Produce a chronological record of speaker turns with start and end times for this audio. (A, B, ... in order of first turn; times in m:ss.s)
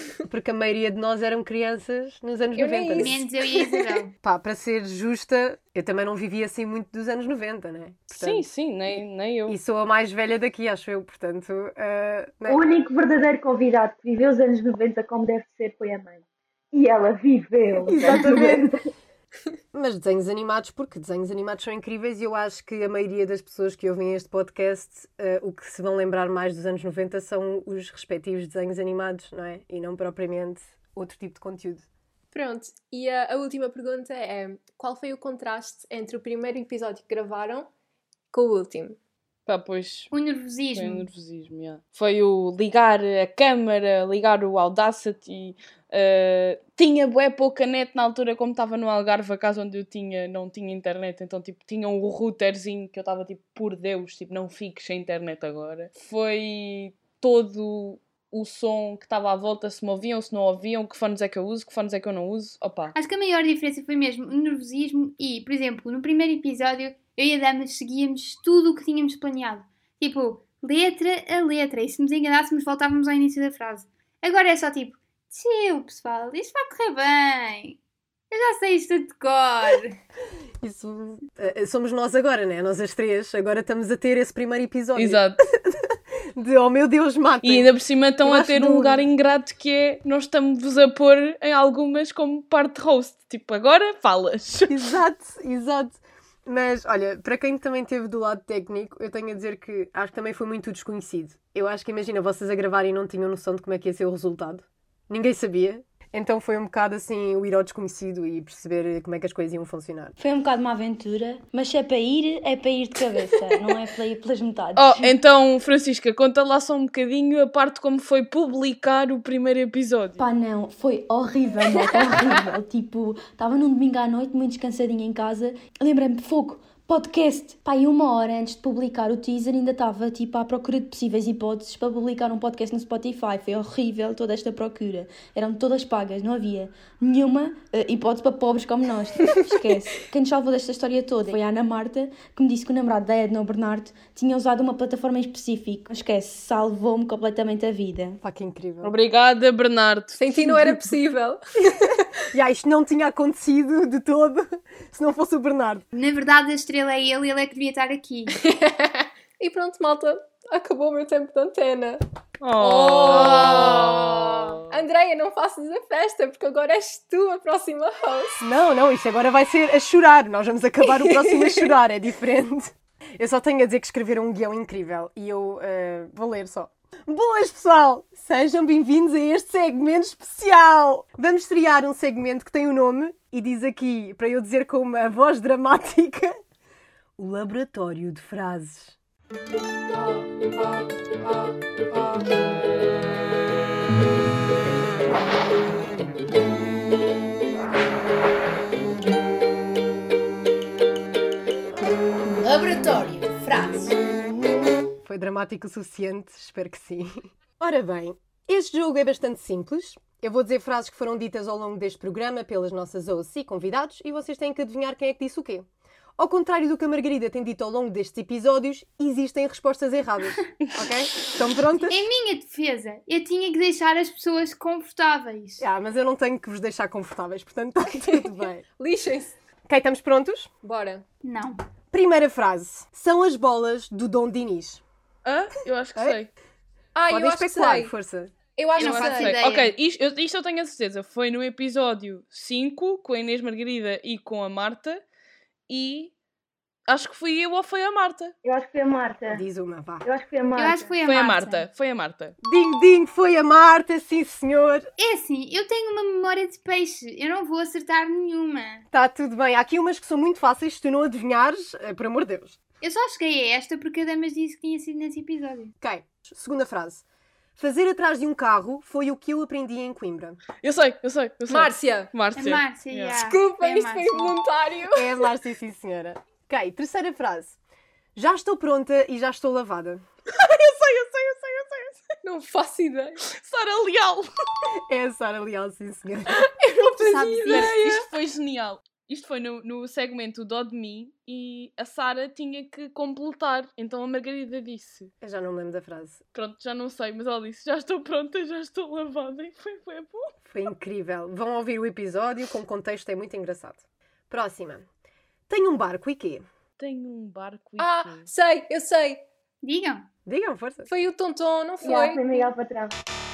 0:00.3-0:03.2 A
0:02.5-0:04.0 B
0:03.0-0:04.1 C
0:04.2-0:08.4 A
0:08.1-0:09.6 D
0:09.5-0:12.6 A
0:12.5-0:16.2 E
0:16.7-0:18.8 E
0:17.8-0:18.7 A
0:19.7-0:31.9 A
0:32.3-0:37.7 B
0:38.3-0:39.0 B
0:39.5-0:40.1 D
0:40.1-0:41.1 C
0:40.8-1:02.9 D
1:02.9-1:17.8 C
1:18.3-1:20.0 C
1:20.6-1:27.7 A
1:25.0-1:25.4 D
1:27.4-1:34.9 D
1:28.2-1:29.0 A
1:34.7-1:50.1 A
1:50.2-1:55.1 F
1:54.8-2:00.2 D
2:00.2-2:28.2 F
2:28.2-2:28.9 A
2:28.8-2:30.8 D
2:30.2-2:31.4 B
2:32.3-2:35.8 A
2:35.9-2:38.3 C
2:38.3-2:42.0 B
2:42.4-2:44.7 D
2:42.6-2:48.4 B
2:48.4-3:06.4 A
3:07.2-3:09.0 A
3:25.0-3:35.7 A
3:36.2-3:42.0 A
3:41.9-3:45.6 C
3:45.6-3:48.6 A
3:48.7-3:49.4 B
3:49.7-3:50.5 A
3:50.6-3:51.0 B
3:51.2-3:51.6 C
3:51.9-3:54.8 A
3:55.2-3:56.3 D
3:56.9-3:57.9 B
3:57.1-3:58.3 A
3:58.5-3:59.5 B
3:58.8-3:59.7 C
3:58.8-4:05.0 D
4:05.7-4:06.1 D
4:06.9-4:08.3 D
4:08.4-4:09.4 E
4:09.3-4:10.0 A
4:10.0-4:10.9 E
4:10.5-4:11.6 C
4:11.0-4:12.4 D
4:12.4-4:14.9 A
4:15.0-4:18.8 C
4:18.9-4:22.6 A
4:22.8-4:25.7 C
4:25.8-4:27.0 A
4:27.6-4:30.4 A
4:30.6-4:33.1 D
4:31.5-4:32.1 B
4:32.4-4:34.3 C
4:33.1-4:35.2 B
4:34.9-4:37.6 A
4:38.1-4:40.0 A
4:40.3-4:42.0 D
4:42.2-4:43.2 B
4:43.2-4:44.3 D
4:44.9-4:46.5 A
4:46.4-4:48.1 B
4:47.0-4:47.7 A
4:47.4-4:55.1 D
4:55.2-4:56.2 A
4:56.3-5:00.3 D
5:00.4-5:04.8 A
5:05.5-5:06.4 A
5:06.8-5:08.3 D
5:07.8-5:09.2 B
5:09.6-5:10.1 C
5:10.2-5:10.9 A
5:10.9-5:12.5 B
5:11.8-5:13.0 E